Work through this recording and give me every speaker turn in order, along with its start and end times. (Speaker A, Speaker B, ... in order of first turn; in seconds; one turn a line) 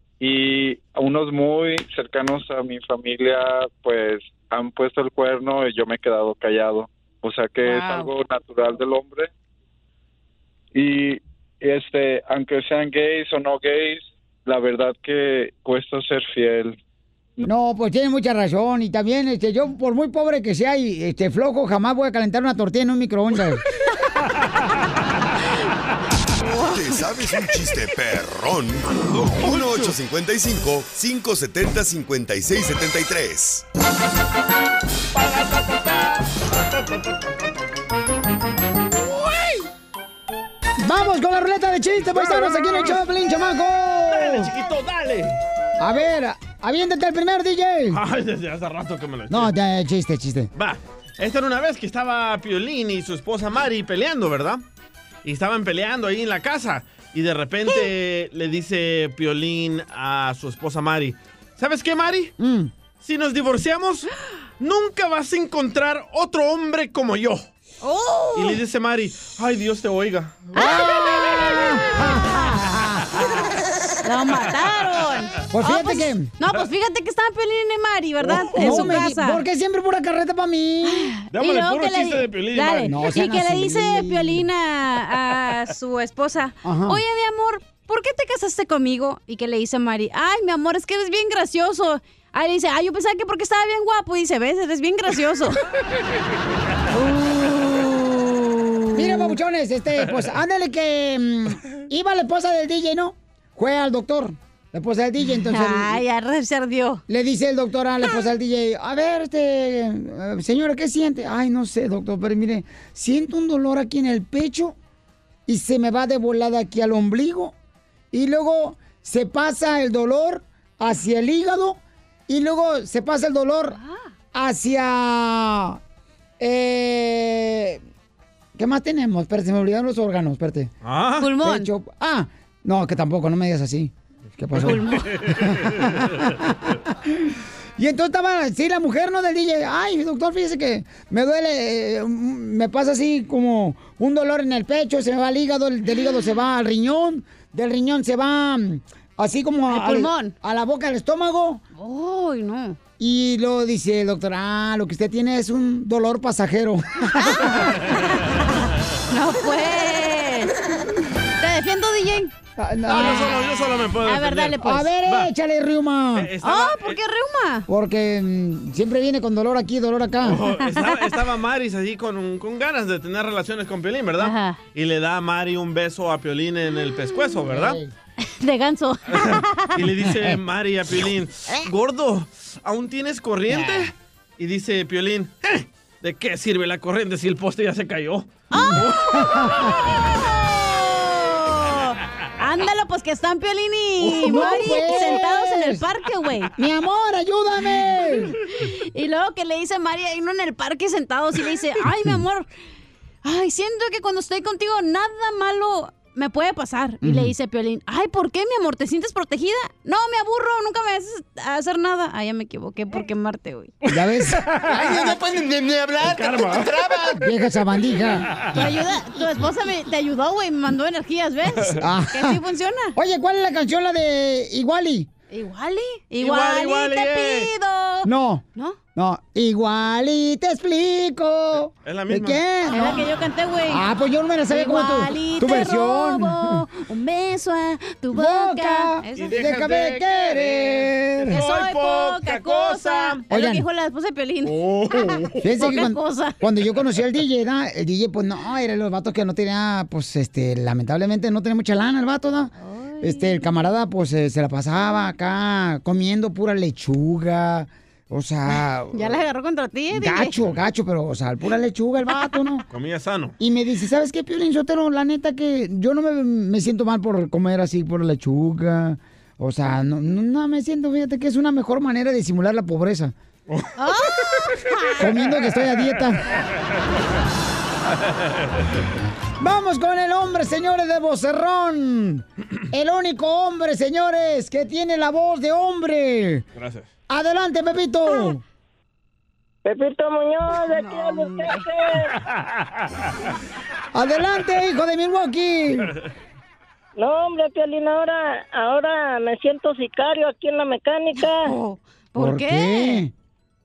Speaker A: 1.8-2.8
Speaker A: 4.3-5.7
Speaker A: 7.5-8.1
Speaker B: 7.6-8.1
Speaker C: 17.4-23.6
Speaker B: 26.4-27.1
Speaker D: 26.7-33.6
Speaker E: 29.1-29.9
Speaker E: 35.1-36.2
Speaker C: 40.8-44.5
Speaker E: 42.1-43.0
Speaker E: 44.0-45.4
Speaker C: 45.8-48.0
Speaker E: 47.9-49.5
Speaker C: 49.3-50.5
Speaker E: 50.5-54.6
Speaker E: 55.2-62.3
Speaker C: 62.4-62.7
Speaker E: 63.0-64.1
Speaker E: 64.6-67.5
Speaker B: 67.8-68.6
Speaker E: 68.3-70.5
Speaker B: 70.5-71.5
Speaker C: 70.5-73.1
Speaker B: 74.0-79.4
Speaker C: 75.5-76.3
Speaker E: 78.2-79.0
Speaker C: 78.5-81.1
Speaker B: 80.8-95.6
Speaker E: 81.3-83.0
Speaker C: 82.9-84.5
Speaker C: 86.6-87.0
Speaker B: 96.9-99.3
Speaker C: 98.9-106.0
Speaker B: 105.3-107.0
Speaker C: 107.1-114.8
Speaker C: 115.5-117.5
Speaker C: 118.1-123.8
Speaker B: 123.8-124.0
Speaker C: 124.3-125.8
Speaker C: 126.4-127.8
Speaker C: 128.6-130.7
Speaker E: 130.8-131.3
Speaker B: 131.2-131.7
Speaker C: 131.4-136.3
Speaker B: 134.6-135.1
Speaker E: 135.3-135.8
Speaker C: 137.8-151.6
Speaker B: 149.7-150.3
Speaker B: 151.7-152.8
Speaker C: 153.0-157.7
Speaker B: 157.2-158.4
Speaker B: 159.1-160.6
Speaker B: 161.4-162.3
Speaker C: 162.6-163.4
Speaker E: 162.9-165.3
Speaker B: 164.0-164.9
Speaker C: 164.6-166.3
Speaker E: 166.1-167.0
Speaker B: 166.4-167.7
Speaker C: 167.7-170.4
Speaker E: 170.2-177.8
Speaker B: 170.6-171.2
Speaker B: 174.2-174.6
Speaker C: 177.5-177.9
Speaker B: 178.4-179.8
Speaker E: 179.1-189.7
Speaker B: 188.5-188.9
Speaker C: 188.7-189.7
Speaker B: 190.2-196.5
Speaker E: 194.0-194.9
Speaker C: 194.2-195.8
Speaker C: 196.6-198.3
Speaker B: 198.5-202.5
Speaker B: 203.2-213.7
Speaker C: 207.0-207.3
Speaker C: 213.9-214.4
Speaker E: 214.4-214.8
Speaker E: 216.0-216.9
Speaker C: 217.2-218.3
Speaker B: 218.5-222.9
Speaker C: 221.8-222.4
Speaker C: 222.9-225.1
Speaker B: 225.3-228.8
Speaker E: 226.2-227.5
Speaker C: 228.0-228.4
Speaker C: 228.9-233.1
Speaker E: 231.8-232.4
Speaker B: 232.7-233.9
Speaker C: 233.7-236.6
Speaker B: 234.5-239.4
Speaker C: 238.1-241.4
Speaker E: 239.1-243.2
Speaker B: 241.3-246.4
Speaker C: 243.3-243.7
Speaker E: 244.4-245.4
Speaker C: 245.4-259.2
Speaker B: 252.6-253.6
Speaker B: 258.9-260.3
Speaker C: 259.9-262.6
Speaker E: 262.7-263.3
Speaker C: 263.4-273.1
Speaker B: 273.8-275.1
Speaker C: 275.0-276.2
Speaker C: 279.4-286.4
Speaker E: 286.6-286.9
Speaker C: 287.1-288.4
Speaker F: 289.6-292.1
Speaker B: 290.5-291.7
Speaker C: 293.9-295.9
Speaker F: 296.9-301.5
Speaker B: 301.1-303.0
Speaker C: 302.2-303.1